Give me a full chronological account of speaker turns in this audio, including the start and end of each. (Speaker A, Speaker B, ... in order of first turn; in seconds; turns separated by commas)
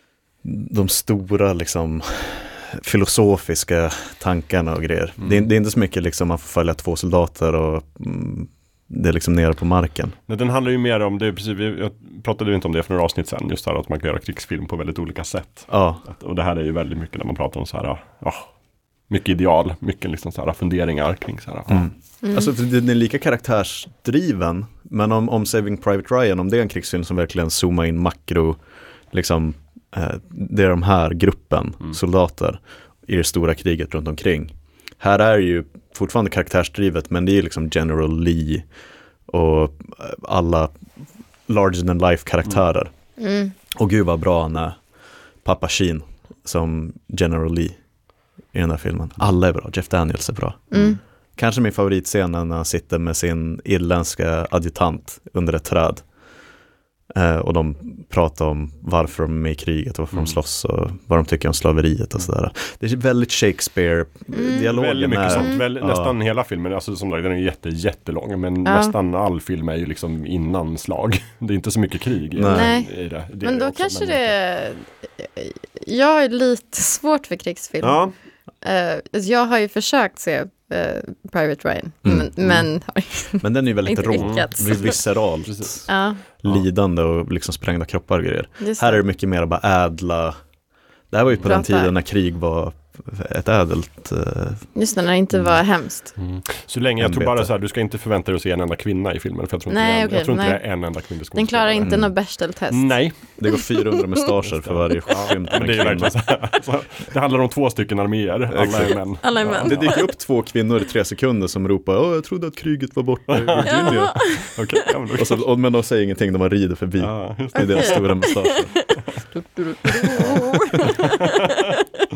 Speaker A: 0.4-10.2, Speaker B: 5.2-5.5, Speaker B: 10.3-18.5, Speaker A: 15.7-16.0, Speaker B: 19.1-21.9, Speaker A: 21.7-28.6, Speaker C: 22.2-22.5, Speaker A: 29.1-38.6, Speaker A: 39.3-40.7, Speaker A: 41.5-42.9, Speaker C: 43.2-43.5, Speaker A: 43.7-44.8, Speaker A: 45.4-47.8, Speaker A: 48.5-50.8, Speaker C: 50.7-51.0, Speaker A: 51.4-56.0, Speaker A: 57.1-66.1, Speaker C: 64.3-64.7, Speaker B: 64.7-74.3, Speaker C: 65.3-65.6, Speaker C: 68.7-68.9, Speaker A: 72.3-72.7, Speaker C: 72.5-78.1, Speaker B: 77.8-78.1, Speaker C: 78.6-85.0, Speaker A: 82.0-82.6, Speaker A: 83.4-85.9, Speaker B: 84.2-85.7, Speaker C: 85.9-86.2, Speaker A: 86.4-90.3, Speaker C: 88.6-89.0, Speaker A: 91.1-94.7, Speaker C: 91.4-91.9, Speaker C: 94.8-96.1, Speaker B: 96.2-102.1, Speaker A: 97.0-97.5, Speaker C: 99.7-104.2, Speaker A: 101.8-102.1, Speaker B: 102.7-103.2, Speaker A: 103.4-106.2, Speaker B: 104.4-110.0, Speaker A: 108.5-114.3, Speaker C: 109.2-110.1, Speaker B: 113.3-115.4, Speaker C: 113.6-114.6, Speaker A: 115.1-118.9, Speaker B: 117.0-118.1, Speaker C: 117.5-121.8, Speaker B: 120.0-121.8, Speaker A: 120.2-120.5